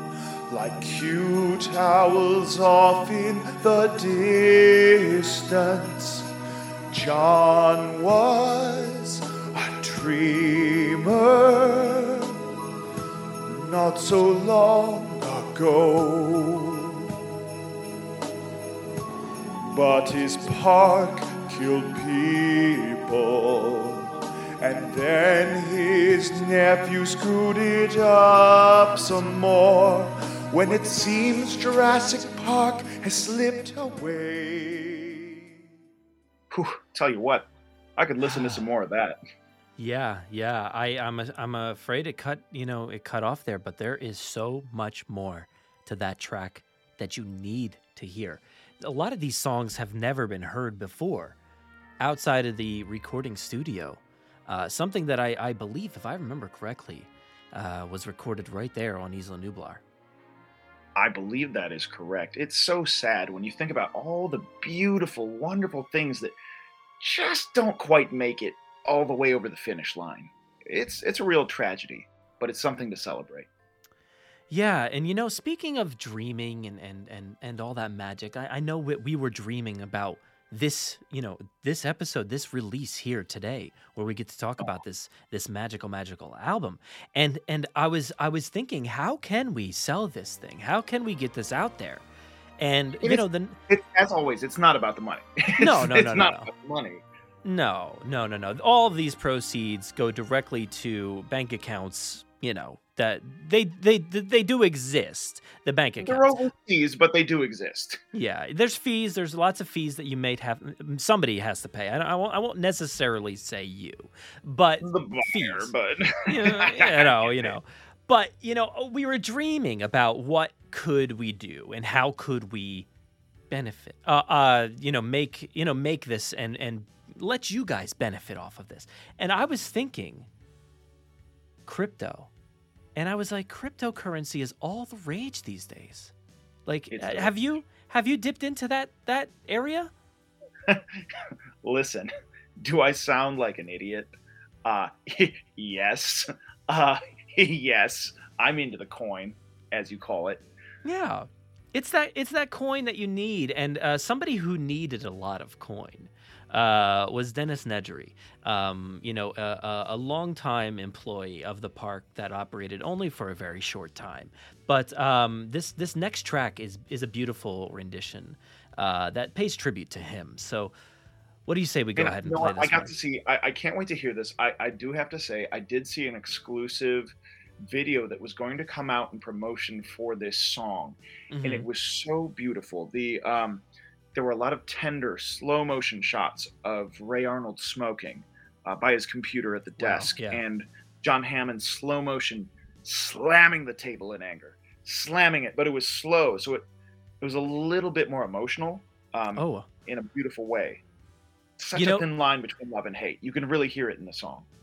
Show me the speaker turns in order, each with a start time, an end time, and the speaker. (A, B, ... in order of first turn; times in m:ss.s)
0:00.5-0:06.3 A
0:06.9-0:12.3 A
0:13.4-0:17.0 A
0:19.7-0:24.1 A
0:24.6-0:35.4 A
0:36.5-0:39.2 B
0:38.2-0:38.6 C
0:39.8-0:51.4 C
0:52.0-0:59.8 C
1:01.0-1:06.4 B
1:07.0-1:13.5 B
1:14.5-1:32.0 C
1:32.6-1:33.6 C
1:33.0-1:37.0 B
1:35.6-1:36.5 C
1:37.4-1:46.3 C
1:46.0-1:48.0 B
1:48.1-1:55.7 C
1:54.8-1:57.6 B
1:56.2-2:02.9 C
2:03.5-2:10.3 C
2:11.6-2:12.3 C
2:13.0-2:16.1 C
2:16.6-2:19.9 C
2:16.9-2:17.3 B
2:20.6-2:21.0 B
2:21.6-2:30.4 B
2:30.8-2:50.7 C
2:51.5-2:52.9 C
2:52.0-3:16.6 B
3:01.3-3:01.7 C
3:09.8-3:10.4 C
3:17.2-3:20.8 B
3:19.4-3:19.7 C
3:21.6-3:24.5 B
3:21.7-3:22.0 C